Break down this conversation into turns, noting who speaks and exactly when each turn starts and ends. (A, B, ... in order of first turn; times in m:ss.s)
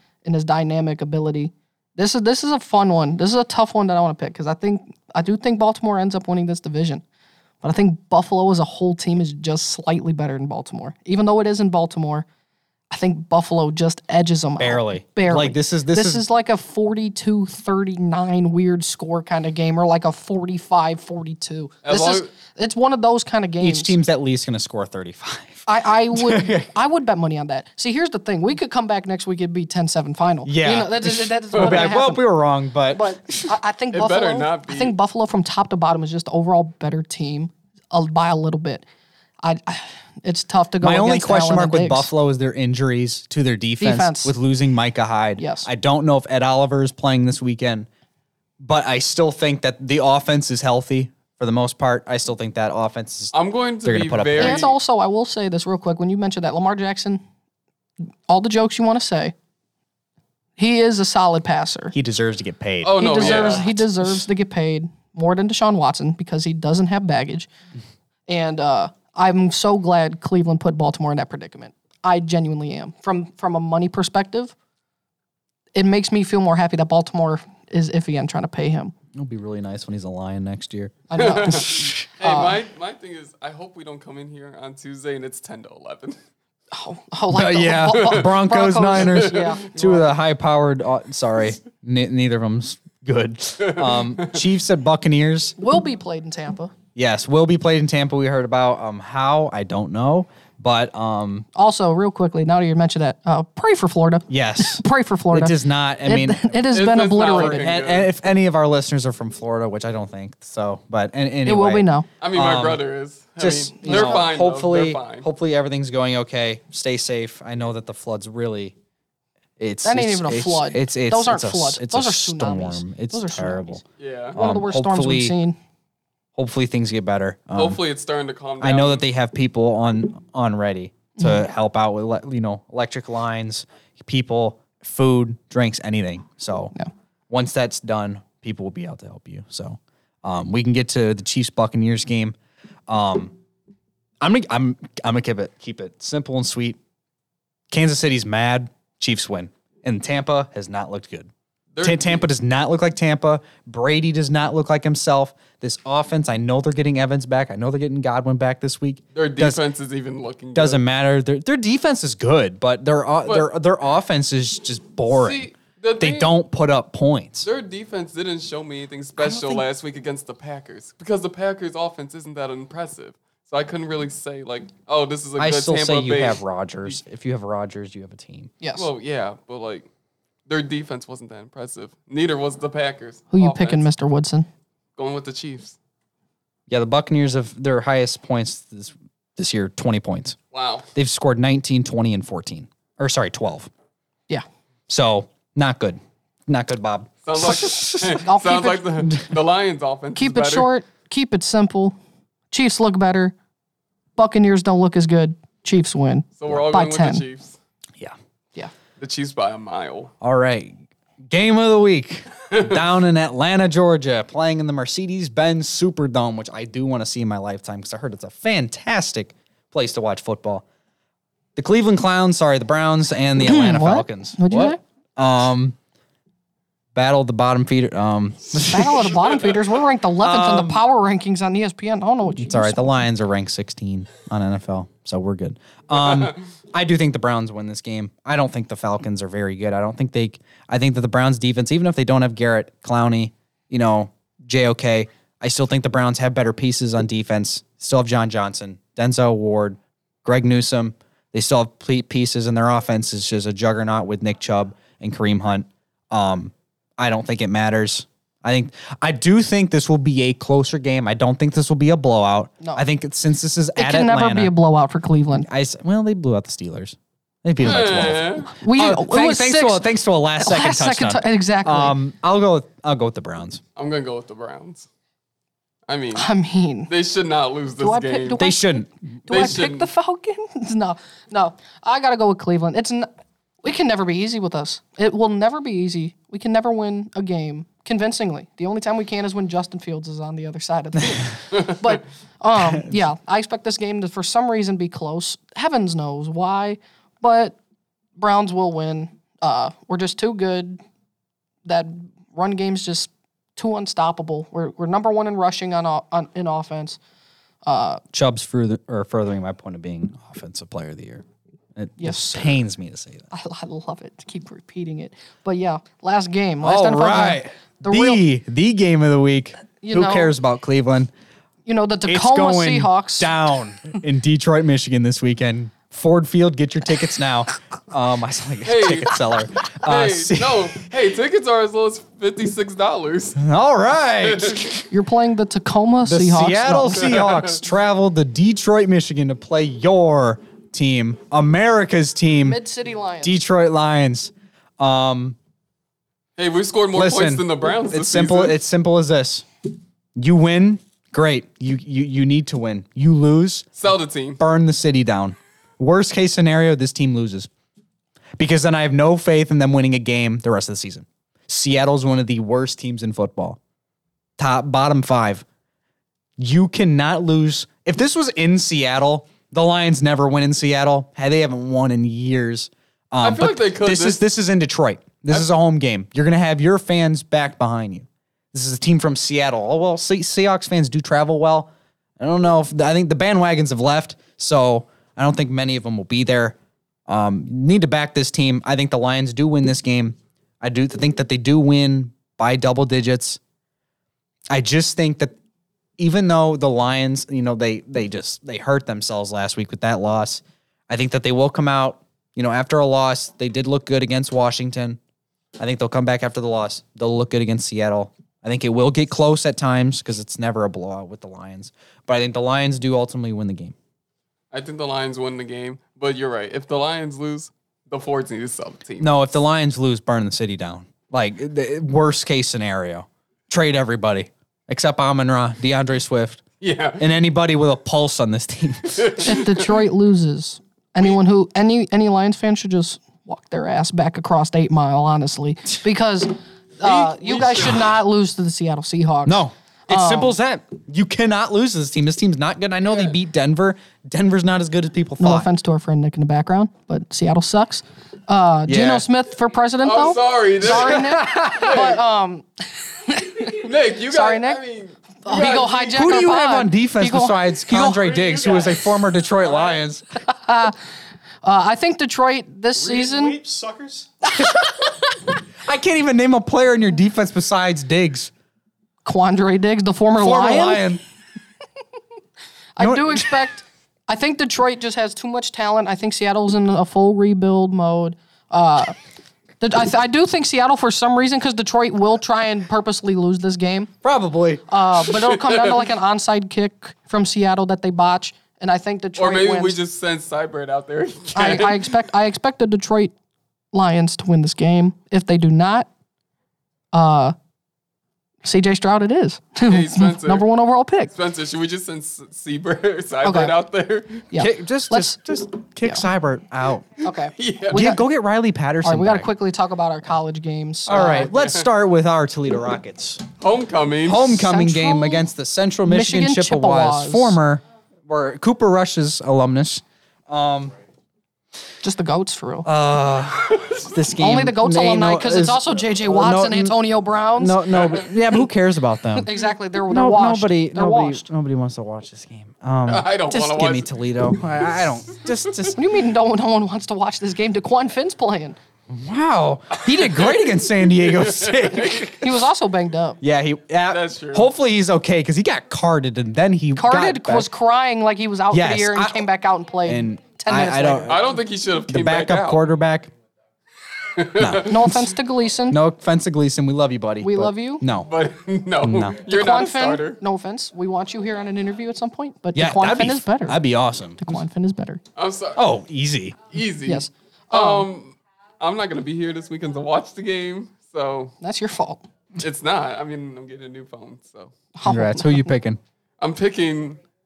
0:00.2-0:07.0 A
0:07.6-0:12.3 A
0:12.9-0:23.9 A
0:14.6-0:16.2 B
0:21.8-0:22.3 C
0:23.6-0:26.7 B
0:25.7-0:32.2 A
0:30.4-0:33.5 B
0:31.6-0:31.8 C
0:32.9-0:38.8 A
0:33.9-0:34.9 C
0:39.4-0:42.1 A
0:40.8-0:47.9 B
0:43.8-0:44.3 A
0:45.4-0:45.7 A
0:48.6-0:54.6 B
0:53.3-0:54.8 C
0:54.4-0:57.2 A
0:58.3-0:59.3 A
1:00.6-1:01.9 A
1:01.9-1:03.8 B
1:02.8-1:03.7 C
1:03.0-1:07.5 A
1:08.3-1:14.5 A
1:15.7-1:18.9 A
1:19.1-1:22.1 B
1:21.1-1:22.6 A
1:21.2-1:26.2 C
1:26.7-1:30.1 A
1:27.3-1:35.6 B
1:29.0-1:29.6 C
1:33.7-1:34.3 C
1:35.6-1:36.7 A
1:36.9-1:41.5 B
1:41.5-1:47.7 A
1:44.3-1:46.6 B
1:46.7-1:48.1 C
1:47.2-1:52.8 B
1:51.4-1:52.1 A
1:52.2-1:55.2 C
1:53.4-1:58.8 B
1:53.8-1:54.3 A
1:59.6-2:03.8 B
1:59.8-2:03.8 A
2:04.0-2:04.4 C
2:04.3-2:05.6 A
2:04.3-2:05.3 B
2:06.4-2:07.8 B
2:07.6-2:09.0 C
2:08.6-2:16.7 B
2:11.2-2:11.4 A
2:17.3-2:22.4 B
2:22.9-2:23.3 B
2:24.2-2:26.8 B
2:27.7-2:31.3 B
2:31.7-2:32.3 C
2:31.8-2:39.6 B
2:39.1-2:40.8 C
2:40.5-2:47.5 B
2:45.1-2:46.3 C
2:47.4-2:57.0 C
2:49.2-2:49.6 A
2:55.4-2:58.5 B
2:58.6-2:58.9 A
2:58.8-2:59.9 C
3:00.5-3:03.8 C
3:03.3-3:04.5 A
3:05.0-3:05.8 C
3:06.7-3:10.4 B
3:10.5-3:10.9 C
3:10.9-3:13.7 B
3:14.9-3:18.1 B
3:17.2-3:20.7 C
3:18.1-3:18.9 A
3:20.1-3:22.0 A
3:22.5-3:23.3 A
3:24.2-3:27.2 A
3:26.4-3:27.6 C
3:29.0-3:30.1 C
3:30.2-3:40.6 B
3:41.6-3:45.8 B
3:43.4-3:44.8 A
3:46.9-3:49.1 B
3:48.5-3:53.0 A
3:50.2-3:50.8 B
3:52.4-4:24.5 B
4:23.8-4:25.5 A
4:25.4-4:33.6 B
4:27.6-4:28.5 C
4:28.6-4:29.8 A
4:30.4-4:32.0 A
4:33.8-4:34.9 C
4:35.9-4:36.3 C
4:36.1-4:36.9 A
4:36.9-4:38.4 C
4:37.8-4:43.1 A
4:38.4-4:38.9 B
4:39.3-4:39.9 C
4:43.6-4:57.6 A
4:52.6-4:52.9 B
4:58.2-5:00.8 A
5:01.6-5:07.0 A
5:07.6-5:08.0 A
5:08.1-5:11.2 B
5:11.8-5:13.3 B
5:12.0-5:12.6 A
5:13.3-5:18.2 A
5:16.6-5:21.1 B
5:19.8-5:20.3 A
5:21.6-5:23.3 A
5:22.0-5:30.7 B
5:28.6-5:29.2 C
5:29.8-5:33.4 C
5:33.4-5:34.9 B
5:34.2-5:34.7 C
5:34.9-5:37.1 A
5:36.0-5:42.6 B
5:37.0-5:37.5 C
5:42.4-5:43.4 A
5:43.2-5:45.4 B
5:46.4-5:48.6 C
5:46.9-5:49.4 B
5:50.2-5:53.7 B
5:53.8-5:54.4 C
5:54.4-5:57.5 B
5:58.4-6:03.6 B
6:04.4-6:05.4 B
6:06.4-6:26.6 B
6:13.2-6:14.2 C
6:27.1-6:33.4 B
6:34.5-6:35.3 B
6:36.0-6:45.0 B
6:45.6-6:53.7 B
6:54.5-6:59.1 C
6:59.0-7:06.4 B
7:06.6-7:07.0 C
7:07.0-7:09.3 B
7:09.0-7:09.7 C
7:09.2-7:20.4 A
7:16.8-7:17.9 C
7:19.2-7:25.5 B
7:22.9-7:23.1 C
7:25.2-7:34.6 A
7:28.7-7:29.0 B
7:29.8-7:32.0 C
7:30.9-7:31.8 B
7:33.4-7:36.2 C
7:35.2-7:38.3 A
7:35.9-7:40.0 B
7:38.2-7:38.8 C
7:39.4-7:39.8 C
7:40.2-7:40.8 A
7:41.4-7:43.4 A
7:42.9-7:44.7 B
7:44.3-7:44.9 A
7:45.6-7:48.3 B
7:49.0-7:50.8 A
7:50.2-7:51.0 B
7:52.8-7:58.9 A
7:52.8-7:53.4 B
7:59.6-8:03.9 A
8:04.0-8:04.6 B
8:04.7-8:09.8 A
8:05.1-8:05.6 C
8:09.2-8:11.9 C
8:11.3-8:13.1 A
8:13.7-8:15.9 A
8:16.9-8:17.3 A
8:18.4-8:21.1 A
8:19.6-8:20.5 C
8:21.1-8:24.3 C
8:23.2-8:23.5 A
8:24.3-8:25.2 A
8:24.3-8:26.8 B
8:27.0-8:28.0 A
8:27.4-8:27.9 C
8:27.7-8:29.3 B
8:28.8-8:31.3 A
8:30.9-8:33.2 B
8:30.9-8:31.7 C
8:33.4-8:34.4 C
8:34.0-8:40.7 B
8:34.3-8:35.3 A
8:35.8-8:37.4 A
8:41.8-8:42.7 A
8:42.6-8:46.8 B
8:44.2-8:48.0 A
8:47.4-8:49.3 B
8:49.2-8:51.2 A
8:49.9-8:55.8 B
8:52.9-8:53.9 C
8:55.8-8:58.6 A
8:58.9-9:02.2 B
8:59.9-9:02.1 C
9:02.2-9:03.2 A
9:03.2-9:07.5 B
9:03.9-9:04.5 C
9:06.7-9:11.2 A
9:08.5-9:09.2 B
9:09.8-9:11.2 B
9:11.1-9:12.6 C
9:11.9-9:13.1 B
9:14.1-9:15.0 C
9:14.4-9:15.0 B
9:14.6-9:15.8 A
9:15.7-9:18.1 B
9:17.2-9:17.8 A
9:18.0-9:20.2 C
9:18.8-9:19.2 B
9:19.2-9:23.6 A
9:22.5-9:24.4 B
9:24.2-9:25.0 A
9:25.2-9:25.6 C
9:25.5-9:26.4 B
9:26.5-9:31.3 C
9:26.8-9:27.9 A
9:31.4-9:32.0 A
9:32.4-9:34.5 C
9:34.7-9:35.5 A
9:34.8-9:35.8 B
9:36.2-9:37.0 C